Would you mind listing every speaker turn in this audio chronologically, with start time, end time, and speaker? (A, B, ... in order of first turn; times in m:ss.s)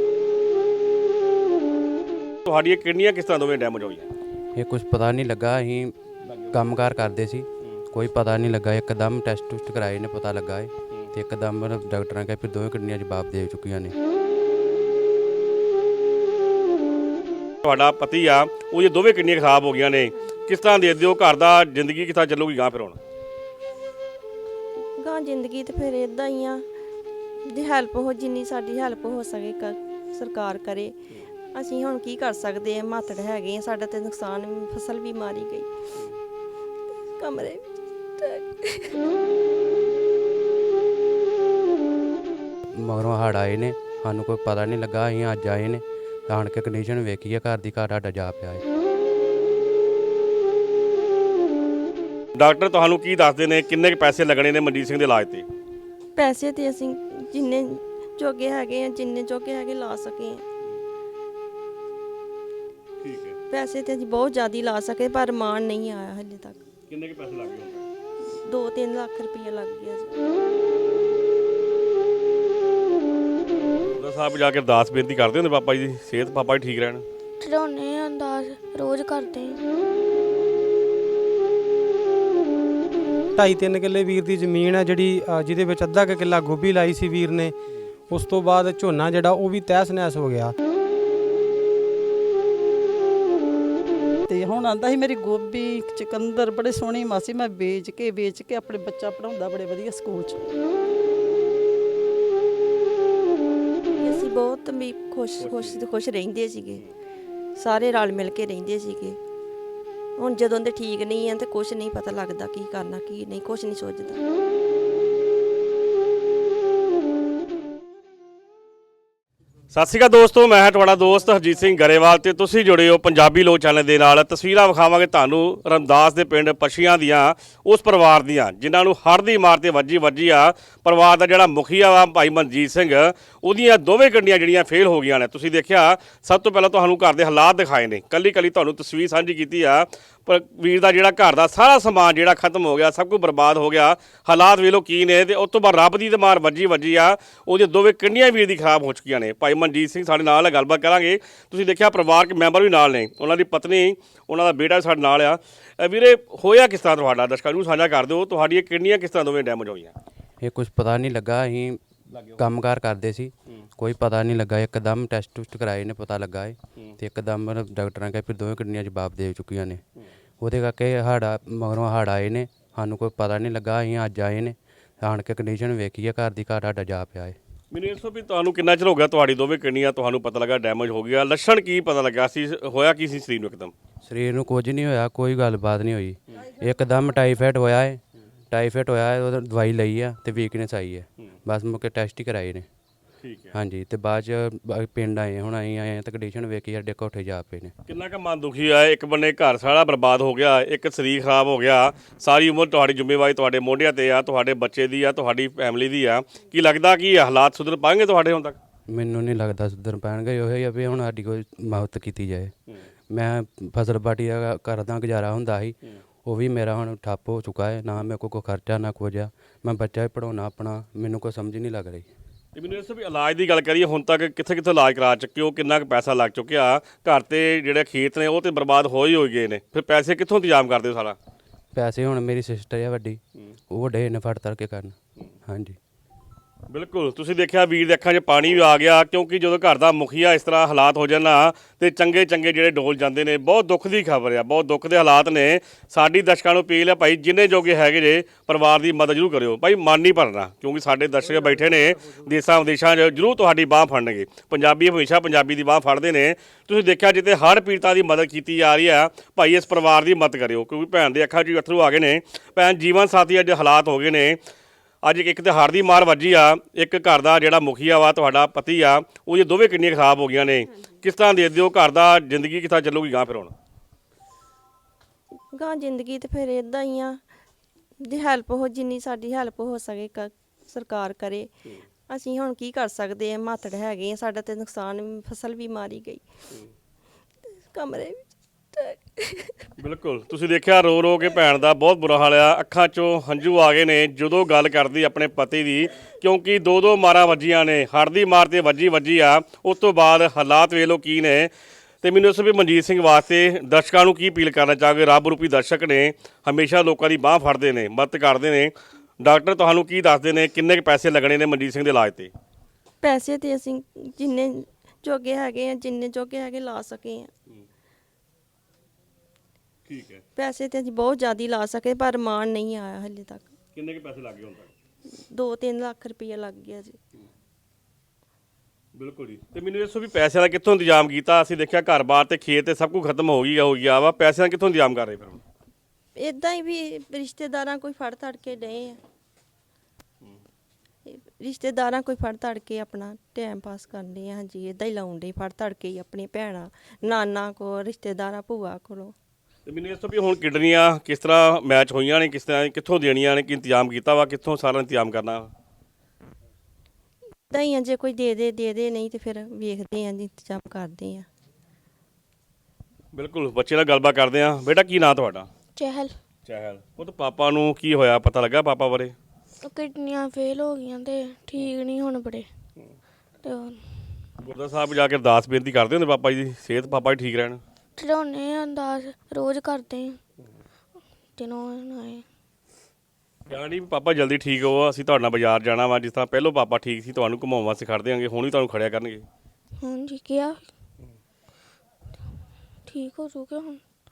0:02.4-0:04.1 A
0:04.6-0:05.9 B
0:06.3-0:06.6 A
0:06.5-0:14.0 B
0:17.6-0:23.0 A
0:25.0-0:26.6 C
0:27.5-0:30.9 C
0:31.5-0:35.7 C
0:37.2-0:39.0 C
0:42.8-0:48.6 B
0:52.3-0:55.5 A
0:56.2-1:00.4 C
1:03.0-1:03.4 A
1:03.5-1:06.6 C
1:06.9-1:07.8 A
1:08.4-1:10.2 C
1:14.0-1:17.0 A
1:17.4-1:19.6 D
1:23.4-1:27.5 E
1:28.1-1:30.5 E
1:34.3-1:40.4 F
1:44.0-1:46.8 C
1:45.4-1:45.8 A
1:47.6-1:49.2 C
1:50.2-1:54.2 C
1:59.7-2:40.0 A
2:40.4-2:41.8 B
2:42.1-2:42.4 A
2:42.4-2:49.8 B
2:50.4-2:57.4 B
2:57.7-3:03.7 A
3:04.0-3:12.7 B
3:13.2-3:13.5 A
3:13.5-3:17.7 B
3:17.9-3:28.6 A
3:28.9-3:32.5 B
3:33.1-3:42.1 B
3:42.6-3:51.2 A
3:51.7-3:55.8 B
3:56.7-4:24.4 A
4:25.0-4:33.5 A
4:35.5-4:37.2 C
4:38.0-4:41.5 C
4:42.1-4:46.2 C
4:47.7-4:49.6 C
4:49.8-5:01.5 A
5:02.0-5:12.3 A
5:13.0-5:17.3 C
5:19.8-5:20.2 A
5:20.4-5:23.5 C
5:23.8-5:24.7 A
5:25.1-5:27.0 C
5:28.9-5:35.4 A
5:36.2-5:39.0 C
5:41.1-5:49.1 C
5:49.6-5:55.5 A
5:57.5-6:01.3 C
6:03.1-6:05.5 A
6:05.8-6:06.2 D
6:06.4-6:09.1 A
6:09.6-6:12.5 D
6:13.4-6:14.2 D
6:14.4-6:17.6 A
6:18.0-6:20.2 D
6:21.4-6:22.2 D
6:23.5-6:29.2 A
6:29.8-6:30.7 D
6:32.8-6:33.8 D